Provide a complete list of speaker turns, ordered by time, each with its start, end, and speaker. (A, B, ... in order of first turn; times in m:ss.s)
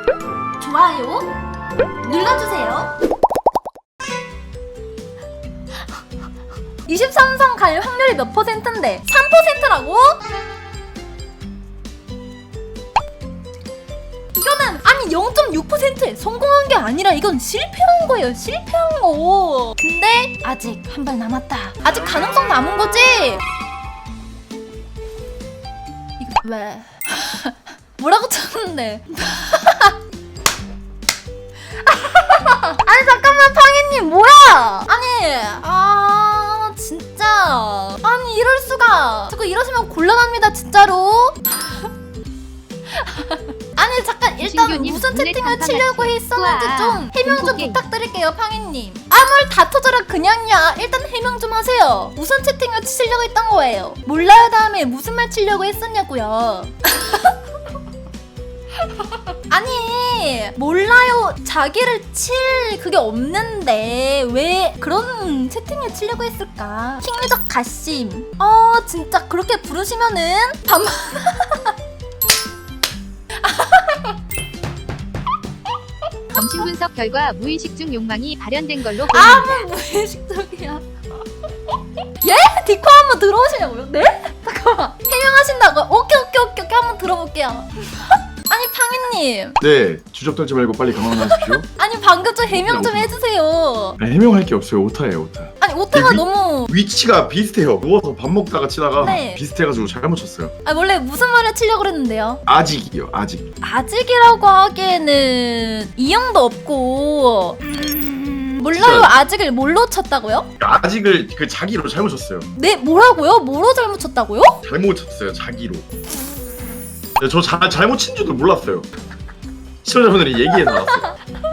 0:00.6-0:01.3 A
0:02.0-0:02.9 A
0:06.9-0:10.2 A
0:14.3-0:23.4 A
0:26.2-0:30.0 A
0:31.8-0:41.9 A
0:42.9-0:57.4 A
0:44.4-0:47.8 B
0:59.5-1:11.7 A
1:13.4-1:14.2 A
1:16.3-1:19.7 B
1:19.1-1:20.8 A
1:22.2-1:29.6 A
1:29.6-1:31.6 C
1:31.1-1:34.0 A
1:32.5-1:33.2 C
1:34.0-1:40.5 C
1:35.6-1:36.7 A
1:39.0-1:39.4 A
1:40.6-1:42.4 A
1:42.5-1:43.5 C
1:43.6-1:50.5 A
1:48.7-1:49.2 C
1:50.6-1:52.5 C
1:52.6-1:54.6 A
1:54.6-1:55.8 C
1:57.2-1:58.9 C
1:59.8-2:01.1 C
2:00.5-2:01.2 A